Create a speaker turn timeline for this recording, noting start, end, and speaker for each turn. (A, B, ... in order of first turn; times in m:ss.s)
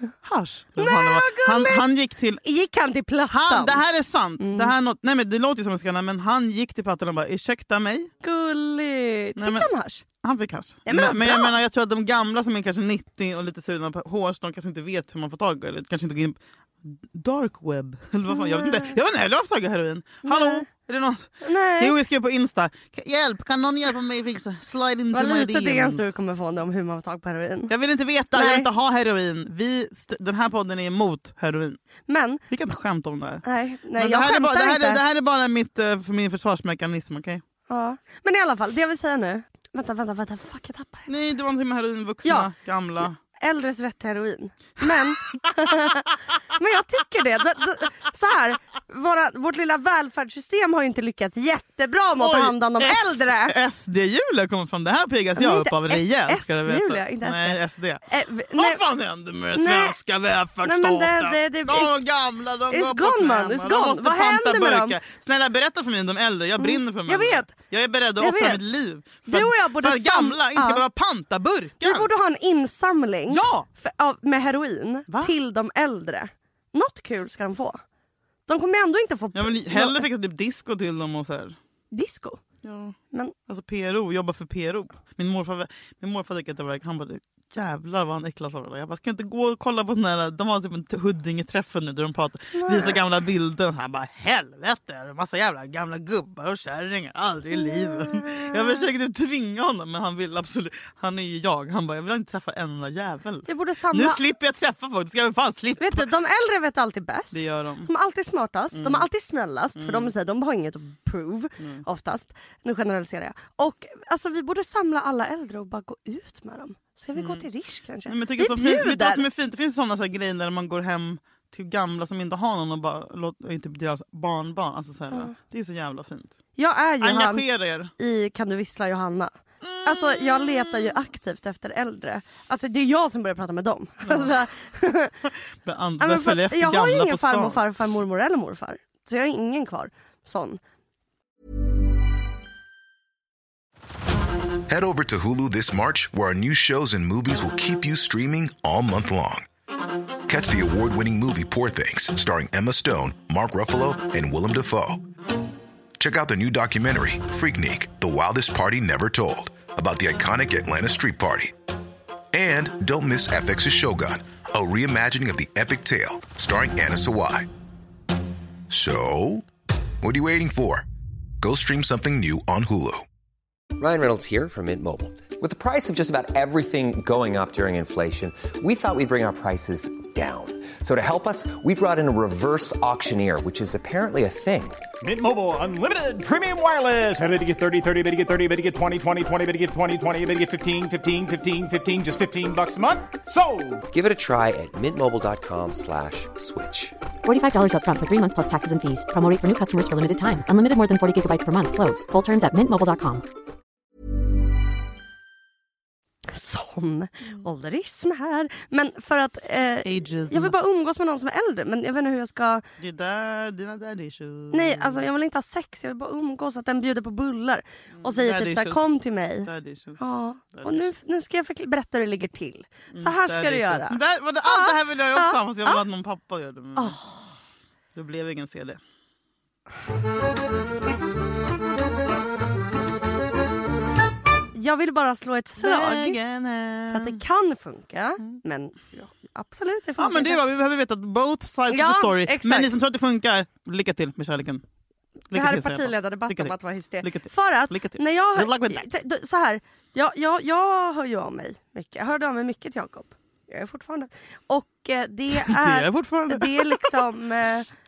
0:00.2-0:02.4 A
0:00.8-0:01.8 B
0:02.4-0:03.8 B
0:03.3-0:08.1 A
0:04.4-0:04.7 B
0:08.2-0:10.0 B
0:09.4-0:09.7 A
0:10.2-0:26.0 A
0:10.9-0:11.6 B
0:18.3-0:19.0 B
0:20.2-0:20.7 B
0:21.4-0:21.9 B
0:25.1-0:27.7 B
0:27.7-0:31.8 A
0:28.3-0:28.7 B
0:32.1-0:32.4 B
0:32.5-0:33.4 A
0:33.4-0:35.0 B
0:34.0-0:37.4 A
0:37.7-0:41.1 B
0:41.1-0:43.2 A
0:42.2-0:42.5 B
0:43.0-0:53.5 B
0:52.2-1:12.1 A
0:55.4-0:58.8 B
0:59.6-1:00.0 B
1:00.6-1:02.0 B
1:02.7-1:05.0 B
1:06.6-1:07.5 B
1:08.2-1:08.6 B
1:09.3-1:10.8 B
1:11.8-1:17.8 B
1:13.3-1:13.7 A
1:15.1-1:15.3 A
1:18.5-1:20.0 B
1:19.4-1:21.6 A
1:21.9-1:22.4 B
1:22.6-1:23.0 A
1:23.5-1:46.1 A
1:32.5-1:33.0 B
1:37.6-1:38.8 B
1:43.5-1:44.2 B
1:45.8-1:59.2 B
1:47.3-1:47.9 A
1:48.7-1:49.1 A
1:49.8-1:50.1 A
1:57.2-1:57.4 A
1:58.1-2:06.4 A
2:06.6-2:07.5 B
2:07.0-2:07.9 A
2:08.0-2:09.3 B
2:09.6-2:10.4 A
2:09.8-2:15.1 B
2:14.0-2:14.3 A
2:15.6-2:17.6 A
2:16.0-2:20.6 B
2:24.7-2:29.5 C
2:30.3-2:35.0 C
2:36.0-2:41.5 C
2:42.3-2:47.5 C
2:48.7-2:49.5 C
2:50.0-2:50.9 C
2:51.4-2:53.0 C
2:53.8-3:04.8 D
3:05.0-3:13.8 E
3:13.9-3:17.0 D
3:17.2-3:23.2 F
3:26.3-3:32.6 B
3:29.8-3:30.6 A
3:32.8-3:35.0 A
3:34.5-3:45.8 B
3:38.0-3:38.9 A
3:39.4-3:40.9 A
3:42.9-3:47.0 A
3:48.0-3:48.8 A
3:54.5-3:56.2 B
3:55.6-3:57.2 A
3:56.9-4:00.4 B
4:00.0-4:04.6 A
4:01.7-4:02.7 B
4:05.3-4:08.9 A
4:05.3-4:17.7 B
4:15.3-4:16.9 A